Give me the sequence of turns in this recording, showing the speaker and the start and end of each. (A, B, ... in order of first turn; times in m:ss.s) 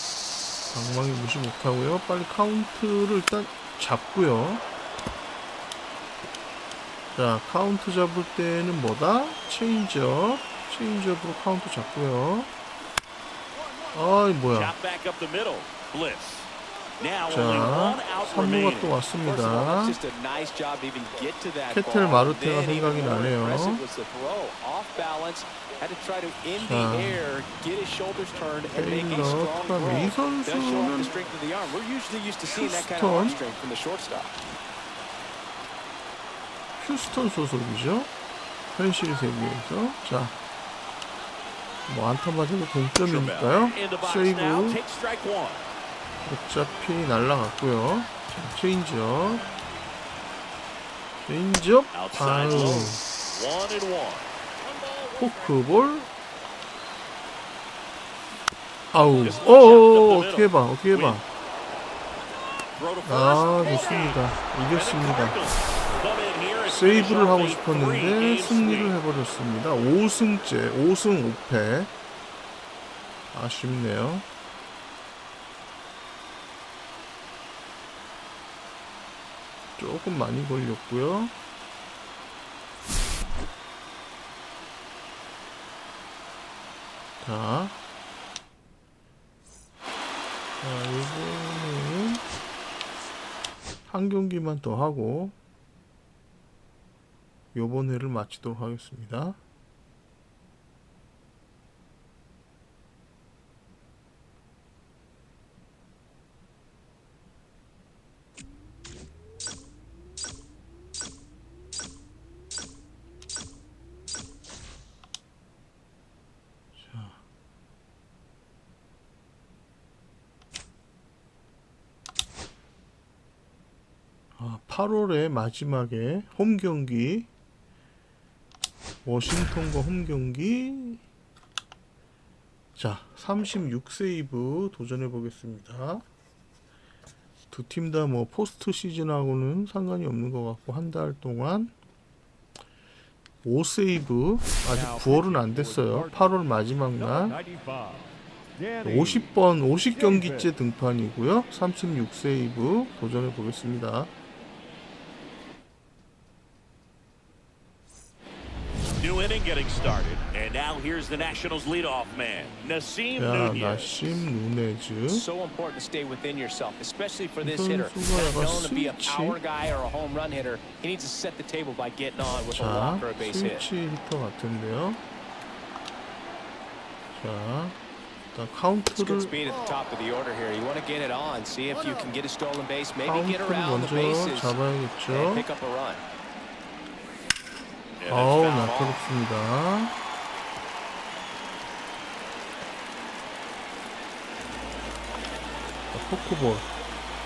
0:00.7-0:04.6 A
0:07.1-0:12.5 A
0:13.9-0:14.7 A
0:14.5-0:19.0 B
0:17.3-0:20.0 A
0:19.2-0:34.4 C
0:21.7-0:23.8 A
0:26.5-0:27.2 A
0:28.7-0:31.1 A
0:32.5-0:33.4 A
0:36.8-0:38.1 A
0:38.7-0:40.3 A
0:41.9-0:44.8 A
0:43.0-0:45.7 B
0:46.2-0:49.4 A
0:51.2-0:53.0 A
0:51.9-0:54.3 B
0:55.1-0:56.1 A
0:58.9-1:01.2 A
0:59.2-1:01.2 B
1:02.8-1:09.0 B
1:03.0-1:05.4 A
1:06.6-1:11.9 A
1:13.3-1:14.2 A
1:19.8-1:21.3 A
1:27.2-1:27.8 A
1:30.6-1:32.2 A
1:33.9-1:35.4 A
1:37.5-1:39.4 A
1:56.8-1:57.2 A
2:04.4-2:07.3 A
2:09.0-2:11.0 A
2:12.8-2:16.0 A
2:17.5-2:21.7 A
2:23.4-2:27.4 A
2:24.7-2:26.4 D
2:27.0-2:29.3 D
2:28.8-2:34.1 A
2:29.9-2:30.5 D
2:39.0-2:44.3 B
2:43.2-2:45.3 A
2:45.1-2:53.6 C
2:47.4-2:49.4 A
2:52.5-2:55.0 A
2:57.1-2:57.8 A
2:58.3-2:59.3 A
2:58.9-3:06.0 C
3:03.0-3:05.4 A
3:08.0-3:09.0 B
3:08.1-3:09.9 A
3:15.9-3:16.7 A